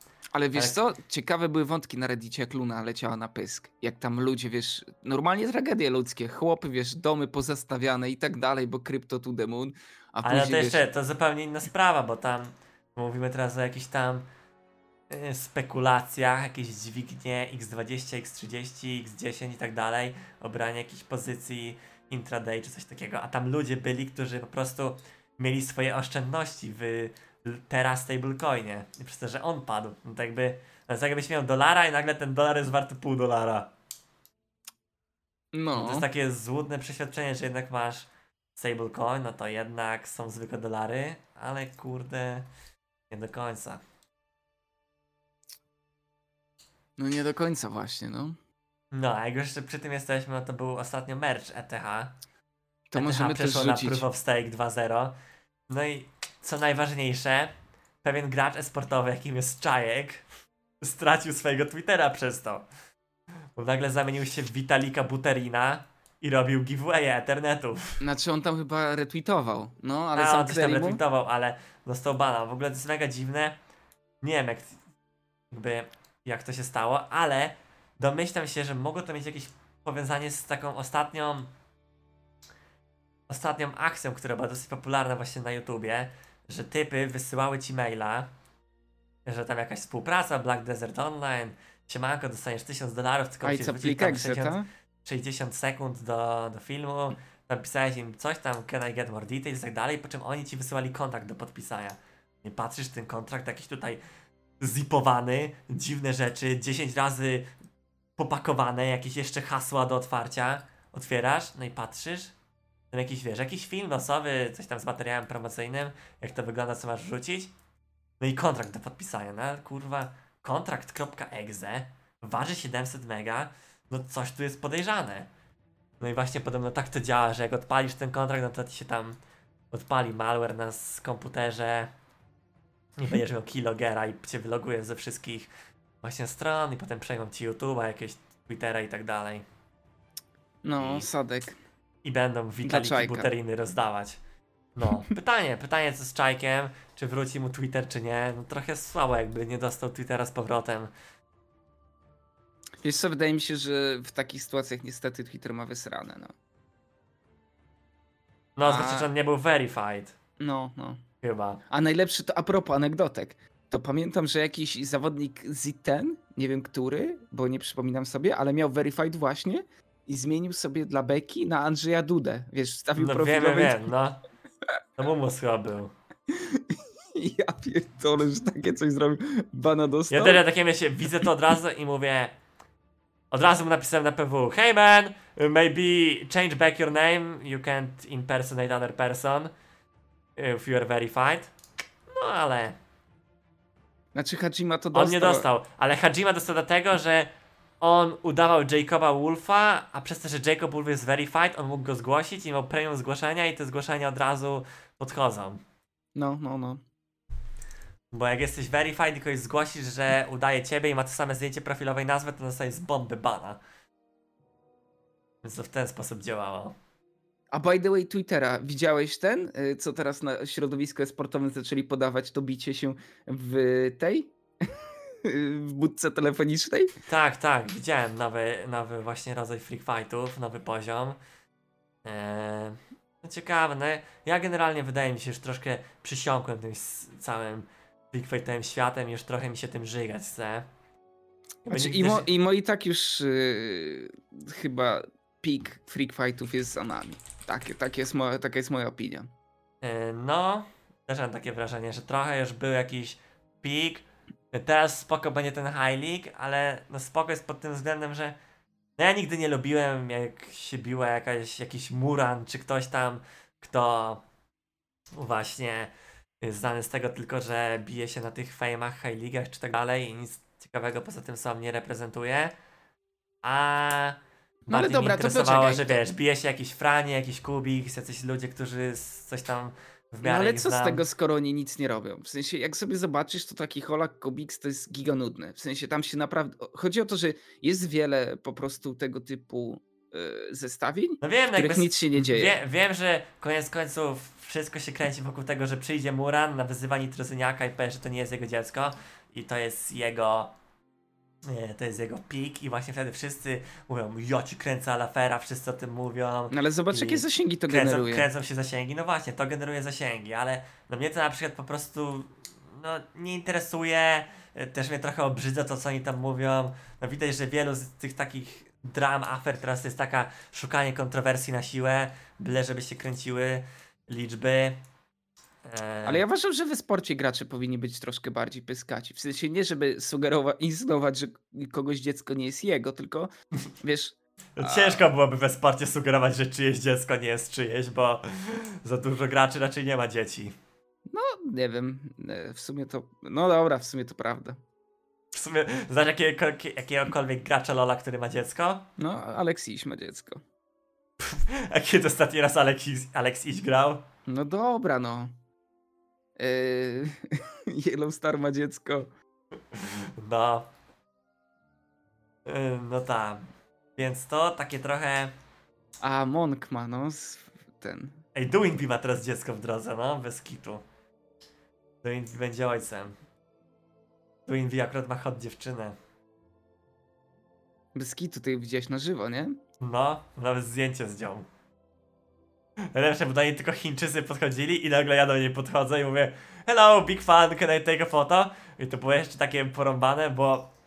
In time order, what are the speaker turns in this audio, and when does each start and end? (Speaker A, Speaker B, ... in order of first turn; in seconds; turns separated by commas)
Speaker A: 0.3-10.8, Speaker B: 10.2-14.3, Speaker B: 15.1-33.7, Speaker A: 35.5-36.0, Speaker B: 35.7-42.5, Speaker B: 43.1-43.8, Speaker A: 47.0-48.4, Speaker B: 48.9-52.1, Speaker A: 52.9-54.0, Speaker B: 52.9-55.1, Speaker B: 55.7-57.5, Speaker B: 58.0-60.2, Speaker B: 60.8-62.6, Speaker B: 63.5-68.0, Speaker A: 68.0-71.0, Speaker B: 70.1-73.5, Speaker B: 74.2-74.8, Speaker B: 75.5-81.5, Speaker B: 83.3-88.3, Speaker B: 89.2-104.0, Speaker A: 93.4-94.7, Speaker B: 104.6-107.5, Speaker B: 108.2-112.3, Speaker B: 112.9-117.5, Speaker B: 118.2-125.3, Speaker B: 126.0-129.2, Speaker B: 129.7-131.9, Speaker B: 133.0-135.5, Speaker B: 136.0-139.4, Speaker A: 140.6-141.6, Speaker B: 140.8-141.1, Speaker B: 142.0-144.2, Speaker A: 142.6-143.3, Speaker B: 144.8-150.9, Speaker A: 152.8-156.3, Speaker B: 158.6-160.1, Speaker A: 158.6-159.1, Speaker A: 160.4-161.0, Speaker B: 161.2-161.6, Speaker A: 161.7-173.8, Speaker B: 172.9-174.2, Speaker B: 175.0-175.9, Speaker A: 176.3-180.4, Speaker B: 180.1-182.3, Speaker B: 183.3-189.5, Speaker B: 190.4-191.5, Speaker B: 192.1-192.8, Speaker A: 194.1-195.4, Speaker B: 194.9-197.3, Speaker B: 197.8-205.6, Speaker A: 206.2-206.8, Speaker B: 208.1-213.6, Speaker B: 215.4-216.8, Speaker A: 217.5-226.9, Speaker B: 227.1-231.2, Speaker B: 232.0-240.7, Speaker B: 241.6-242.3, Speaker A: 241.7-249.3, Speaker B: 249.8-258.4, Speaker B: 259.0-264.2, Speaker B: 265.1-272.5, Speaker B: 273.4-281.0, Speaker A: 274.7-276.0, Speaker A: 280.2-292.6, Speaker B: 291.2-300.5, Speaker B: 301.4-324.8, Speaker A: 306.5-308.2, Speaker B: 325.6-326.2, Speaker A: 326.0-335.0, Speaker B: 334.6-340.6, Speaker A: 341.1-344.6, Speaker B: 345.3-348.9, Speaker A: 349.0-350.4, Speaker B: 351.2-354.0, Speaker A: 354.2-355.3, Speaker A: 356.4-359.1, Speaker B: 359.7-360.7, Speaker B: 362.4-363.4, Speaker B: 363.9-365.3, Speaker A: 366.0-368.2, Speaker B: 368.3-370.8, Speaker B: 372.0-373.1, Speaker B: 374.5-376.0, Speaker A: 377.9-379.6, Speaker B: 379.8-381.5, Speaker B: 382.9-390.7